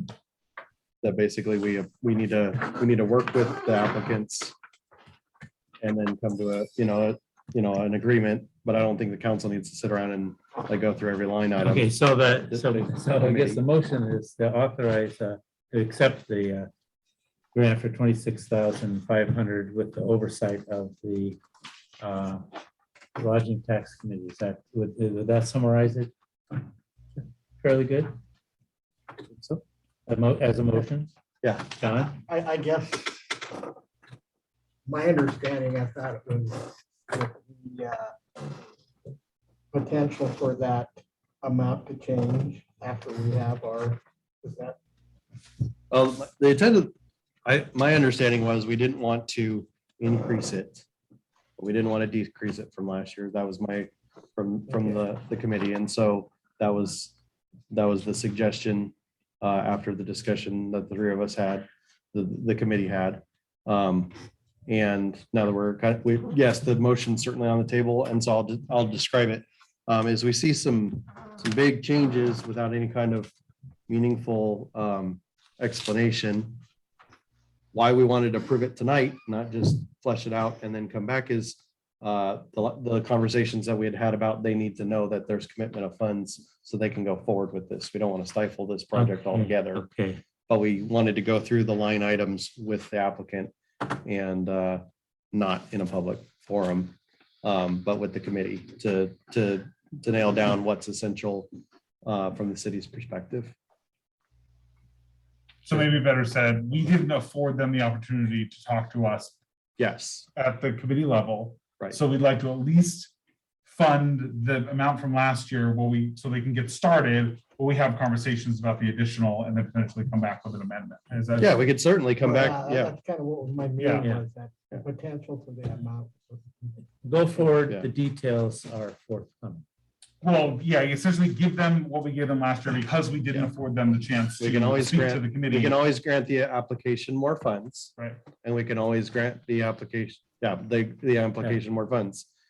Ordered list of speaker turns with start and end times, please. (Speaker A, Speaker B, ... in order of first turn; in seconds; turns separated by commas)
Speaker A: 1.0-4.5, Speaker A: 5.8-13.6, Speaker B: 11.6-16.7, Speaker B: 17.5-21.4, Speaker B: 22.0-22.5, Speaker B: 23.2-26.1, Speaker B: 27.6-28.1, Speaker A: 29.3-29.6, Speaker B: 30.1-31.1, Speaker A: 31.4-31.7, Speaker B: 31.8-32.2, Speaker C: 32.2-33.7, Speaker C: 34.9-38.1, Speaker C: 39.7-44.8, Speaker A: 45.9-46.9, Speaker A: 47.5-50.9, Speaker A: 51.6-57.2, Speaker C: 54.7-55.0, Speaker A: 57.7-64.1, Speaker A: 64.7-73.3, Speaker A: 73.9-76.6, Speaker A: 77.7-89.9, Speaker B: 88.9-90.2, Speaker A: 90.5-101.5, Speaker A: 102.0-103.5, Speaker D: 105.7-109.4, Speaker A: 109.8-110.3, Speaker D: 110.3-113.1, Speaker D: 113.7-121.6, Speaker A: 121.4-122.9, Speaker C: 122.2-126.7, Speaker D: 123.8-124.1, Speaker B: 124.0-124.2, Speaker B: 127.0-129.6, Speaker A: 127.7-127.9, Speaker D: 130.2-135.8, Speaker A: 134.4-142.3, Speaker D: 138.0-138.2